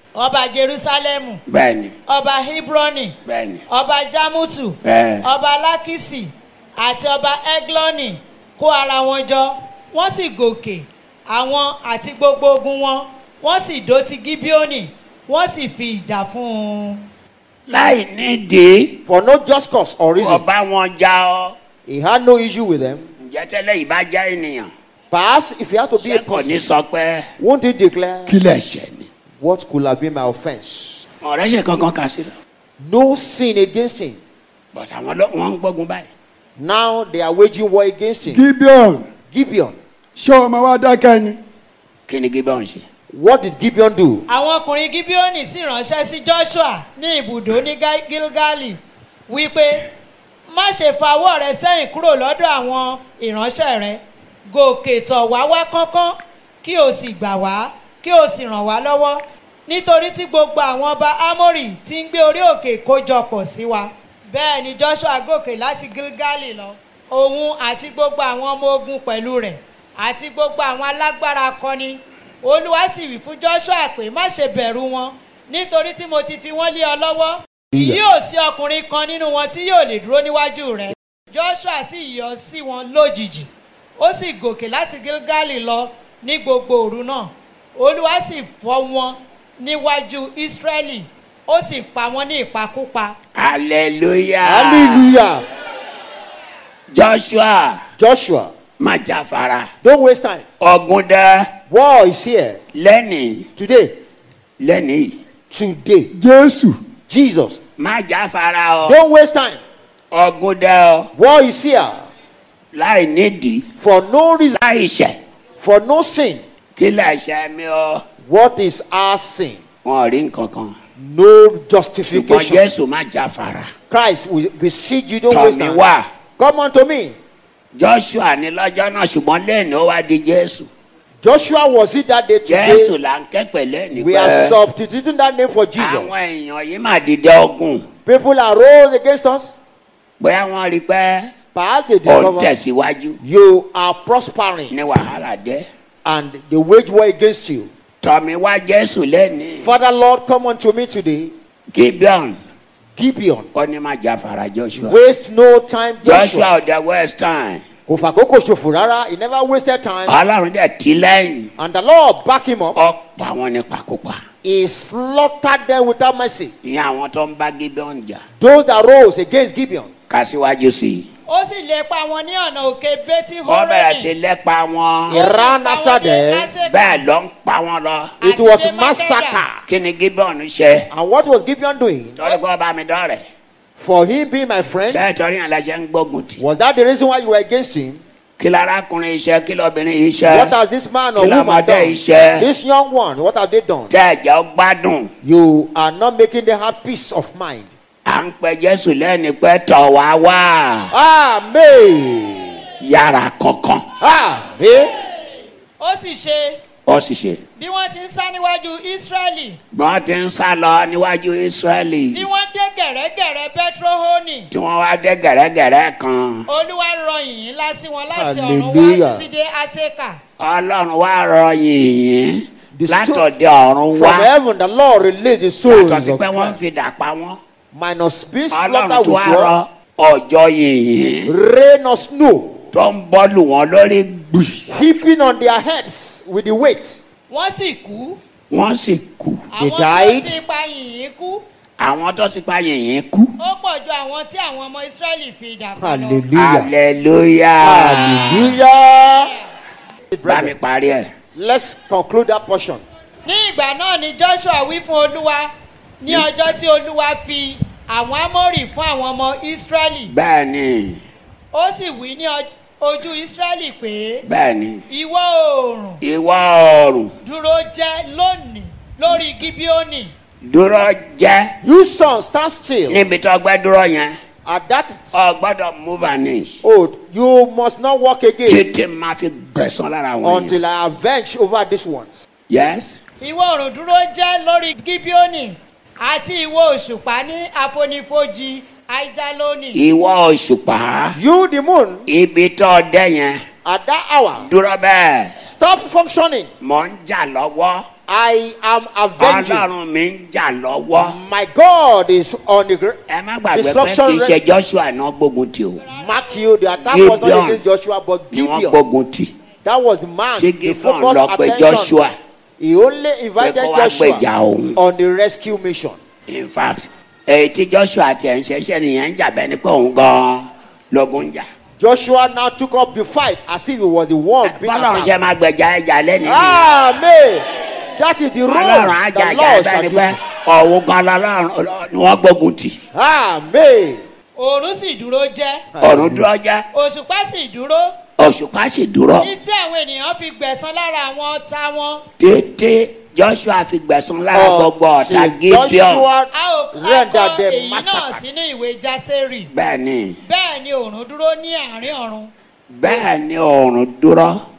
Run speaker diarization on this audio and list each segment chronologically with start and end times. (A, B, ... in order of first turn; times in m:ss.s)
0:00.2-0:01.4 A
0:01.5-0:02.0 B
0:02.1-0:03.2 A
0:03.3-0:03.6 B
0:03.7-0:17.0 A
0:04.8-0:05.3 B
0:17.7-0:19.0 B
0:19.0-0:20.4 C
0:20.2-0:21.6 B
0:21.9-0:23.1 C
0:23.2-0:24.7 B
0:25.1-0:26.6 C
0:26.0-0:27.2 B
0:27.4-0:28.4 C
0:28.3-0:29.1 B
0:29.4-0:31.0 C
0:31.2-0:32.3 B
0:32.8-0:34.2 C
0:34.7-0:36.1 B
0:36.6-0:38.4 C
0:38.3-0:39.1 D
0:39.3-0:39.8 C
0:40.2-0:41.4 D
0:42.1-0:42.8 B
0:43.1-0:44.2 C
0:44.3-0:49.8 A
0:50.5-1:33.2 A
1:17.7-1:18.0 C
1:33.4-1:35.1 B
1:34.4-1:35.4 C
1:36.9-1:37.8 B
1:38.0-1:38.5 C
1:38.8-1:39.7 B
1:39.8-1:40.4 C
1:40.6-1:41.5 B
1:41.7-1:42.6 C
1:42.7-1:43.5 B
1:43.6-1:44.0 C
1:44.6-1:45.2 B
1:45.5-1:46.1 C
1:46.1-1:46.8 D
1:47.1-1:47.6 C
1:47.8-1:49.0 B
1:48.8-1:49.6 C
1:50.1-1:51.1 B
1:51.2-1:52.0 C
1:52.7-1:53.7 B
1:53.8-1:54.6 C
1:54.5-1:55.2 B
1:55.6-1:56.4 C
1:56.8-1:58.0 B
1:58.2-1:59.6 C
1:59.8-2:00.8 B
2:01.0-2:02.6 C
2:02.1-2:03.7 B
2:03.9-2:05.9 C
2:05.3-2:06.1 B
2:06.4-2:07.2 C
2:07.8-2:10.7 B
2:11.2-2:13.0 C
2:12.4-2:14.6 B
2:13.9-2:16.1 C
2:15.8-2:17.8 B
2:18.1-2:19.6 C
2:20.2-2:21.3 B
2:21.5-2:22.5 C
2:22.0-2:23.2 B
2:23.2-2:24.7 C
2:24.7-2:25.7 B
2:26.0-2:27.7 C
2:28.0-2:29.7 B
2:29.6-2:31.3 C
2:31.7-2:32.4 B
2:33.0-2:33.5 C
2:33.5-2:35.0 B
2:34.8-2:36.5 C
2:36.0-2:37.6 B
2:37.9-2:40.2 C
2:40.1-2:41.5 B
2:41.6-2:42.8 C
2:42.8-2:44.2 B
2:44.4-2:46.5 C
2:46.6-2:48.2 B
2:48.4-2:49.9 C
2:50.1-2:51.1 B
2:51.3-2:54.1 A
2:53.5-2:55.2 B
2:55.1-2:56.5 C
2:55.1-2:57.0 A
2:56.6-2:58.2 B
2:58.2-2:59.4 A
2:58.2-2:59.6 C
2:59.7-3:00.9 B
3:00.9-3:02.2 C
3:02.2-3:03.2 B
3:03.8-3:05.0 C
3:04.9-3:06.4 B
3:06.4-3:08.0 C
3:08.4-3:10.5 B
3:10.2-3:13.9 C
3:11.2-3:12.5 B
3:13.9-3:15.1 B
3:15.2-3:17.7 C
3:18.1-3:20.9 B
3:20.9-3:22.6 C
3:22.8-3:23.8 B
3:24.0-3:24.9 C
3:25.8-3:26.6 A
3:26.9-3:27.4 B
3:27.6-3:29.6 A
3:29.7-3:32.2 B
3:32.1-3:34.5 A
3:34.5-3:36.5 B
3:36.5-3:40.2 A
3:38.1-3:39.3 C
3:40.4-3:44.3 B
3:42.8-3:43.3 C
3:43.9-3:46.6 C
3:45.7-3:47.4 B
3:47.7-3:49.6 C
3:48.5-3:51.3 B
3:51.3-3:52.6 C
3:52.7-3:54.6 B
3:54.7-3:57.0 C
3:57.3-3:58.2 A
3:58.5-3:59.4 B
3:59.5-4:01.4 A
3:59.6-4:00.4 C
4:01.8-4:03.3 B
4:03.4-4:06.3 A
4:05.8-4:06.7 C
4:06.4-4:08.6 B
4:07.6-4:09.3 C
4:10.1-4:10.6 C
4:10.2-4:11.1 B
4:11.4-4:12.8 C
4:13.3-4:20.1 A
4:20.1-4:21.0 B
4:21.5-4:24.2 A
4:24.2-4:24.8 B
4:24.9-4:26.0 A
4:26.0-4:27.1 B
4:27.2-4:30.1 A
4:30.4-4:31.5 B
4:31.6-4:33.0 C
4:32.9-4:34.2 B
4:34.5-4:35.1 C
4:35.1-4:36.6 B
4:36.6-4:38.6 C
4:38.5-4:40.6 B
4:40.2-4:42.2 C
4:42.5-4:43.0 B
4:43.2-4:49.8 A
4:49.7-4:51.2 B
4:51.1-4:52.1 C
4:52.1-4:53.4 B
4:53.6-4:54.5 C
4:54.4-4:55.3 B
4:55.4-4:56.5 C
4:56.6-4:57.9 B
4:58.1-4:59.7 C
4:59.2-5:01.2 B
5:00.9-5:03.0 C
5:03.1-5:05.8 B
5:03.5-5:04.4 C
5:05.9-5:08.8 C
5:06.9-5:07.6 B
5:08.3-5:09.3 B
5:09.6-5:12.0 C
5:10.4-5:12.1 B
5:12.6-5:16.0 C
5:13.4-5:14.8 B
5:16.3-5:21.5 B
5:21.8-5:25.1 C
5:24.4-5:26.6 B
5:26.2-5:30.2 C
5:28.5-5:32.8 B
5:32.9-5:34.0 C
5:34.4-5:35.7 A
5:35.8-5:36.3 C
5:35.8-5:36.6 B
5:36.7-5:38.0 A
5:38.2-5:39.3 B
5:39.2-5:42.0 A
5:42.2-5:46.1 B
5:44.3-5:48.2 C
5:46.3-5:49.5 A
5:49.5-5:50.2 B
5:50.2-5:52.3 A
5:52.7-5:54.4 B